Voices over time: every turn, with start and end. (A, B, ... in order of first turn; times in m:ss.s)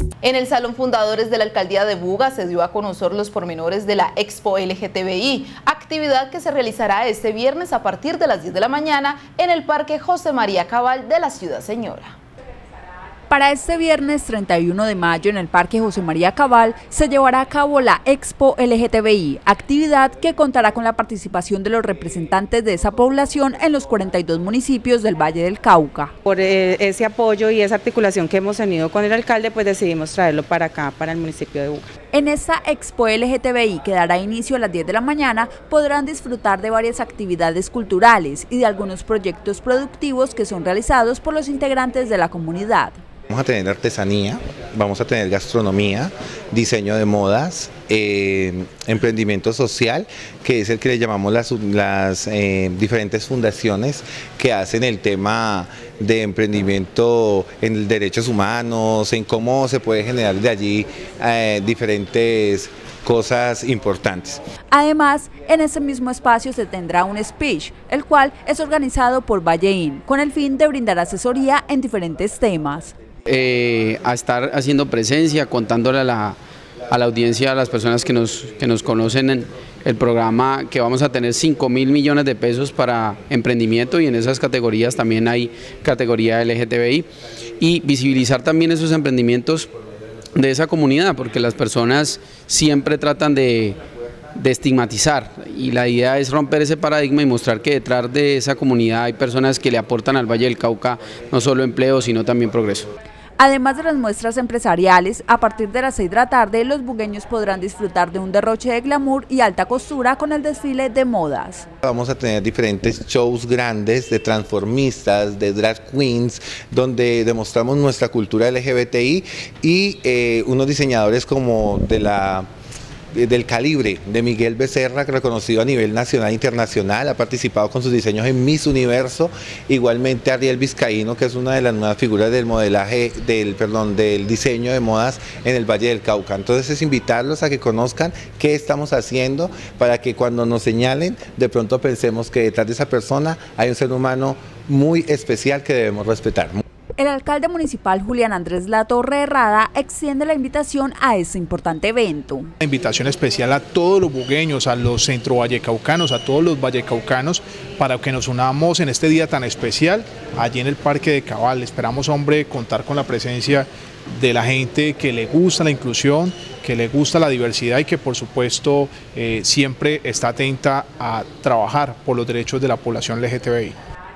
0:00.2-0:12.2 A
0:13.3-0:26.1 B
0:26.2-0:31.9 C
0:32.1-0:43.0 B
0:43.3-1:04.4 D
1:04.7-1:12.9 B
1:13.3-1:16.4 E
1:16.9-1:27.1 E
1:27.6-1:29.7 E
1:30.4-1:33.8 E
1:34.4-1:42.9 E
1:43.4-1:51.7 B
1:51.8-2:02.5 D
2:03.1-2:26.6 D
2:27.0-2:32.5 B
2:32.6-2:53.8 F